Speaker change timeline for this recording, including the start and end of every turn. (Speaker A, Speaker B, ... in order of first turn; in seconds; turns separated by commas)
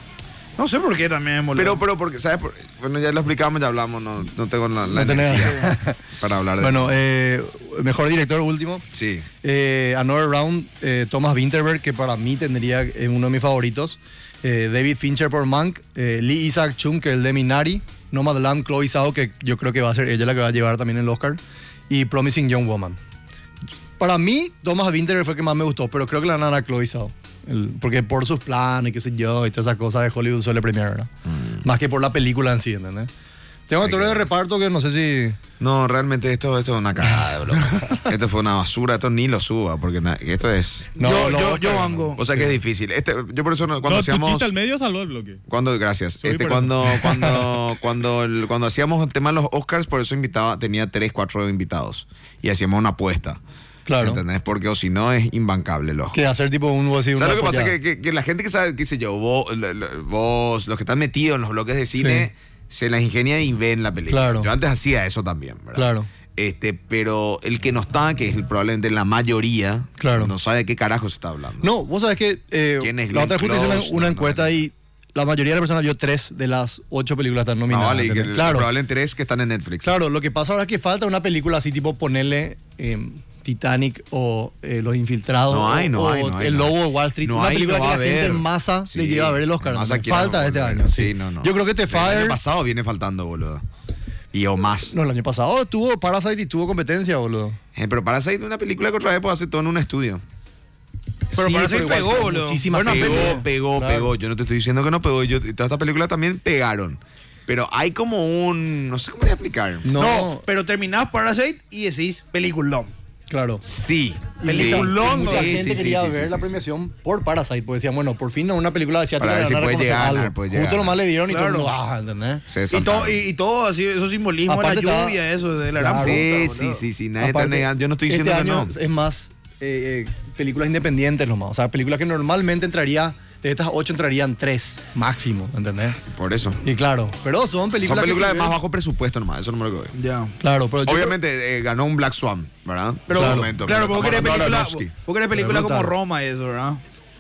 Speaker A: 0.6-1.8, Speaker B: 1.5-5.7, Speaker C: 4.9-6.0, Speaker A: 5.4-5.7, Speaker B: 6.2-7.0, Speaker C: 6.6-8.8, Speaker B: 8.9-9.3, Speaker C: 9.4-23.0, Speaker C: 24.0-31.1, Speaker B: 31.3-31.6, Speaker C: 31.6-33.1, Speaker C: 33.7-35.4, Speaker B: 33.8-34.3, Speaker B: 35.6-41.0, Speaker C: 37.6-38.0, Speaker C: 41.0-42.6, Speaker A: 41.0-42.2, Speaker B: 42.1-44.5, Speaker D: 43.8-45.4, Speaker B: 45.5-53.4, Speaker D: 46.2-47.6, Speaker C: 53.9-54.2, Speaker B: 54.0-56.3, Speaker C: 56.1-57.8, Speaker B: 57.1-71.7, Speaker C: 62.0-62.3, Speaker C: 64.1-64.5, Speaker C: 65.8-66.1, Speaker C: 70.0-70.3, Speaker C: 71.6-78.7, Speaker B: 72.8-74.6, Speaker B: 77.7-80.0, Speaker C: 79.8-92.4, Speaker B: 85.5-93.6, Speaker B: 94.3-95.0, Speaker C: 94.9-97.6, Speaker B: 97.8-100.2, Speaker C: 101.3-104.1, Speaker A: 101.3-103.5, Speaker B: 102.7-109.9, Speaker C: 109.8-110.5, Speaker A: 110.0-112.9, Speaker C: 113.3-113.6, Speaker B: 113.6-116.6, Speaker C: 114.4-122.5, Speaker A: 114.5-115.7, Speaker B: 119.2-121.0, Speaker A: 121.3-121.7, Speaker B: 122.5-123.2, Speaker A: 122.7-126.8, Speaker C: 124.5-125.2, Speaker C: 125.8-126.3, Speaker B: 125.9-128.7, Speaker C: 127.2-136.0, Speaker B: 136.0-136.7, Speaker C: 136.6-138.6, Speaker B: 137.8-139.9, Speaker A: 140.0-140.3, Speaker C: 140.4-141.2, Speaker B: 140.9-144.9, Speaker A: 143.1-146.8, Speaker C: 143.1-143.6, Speaker C: 145.3-145.9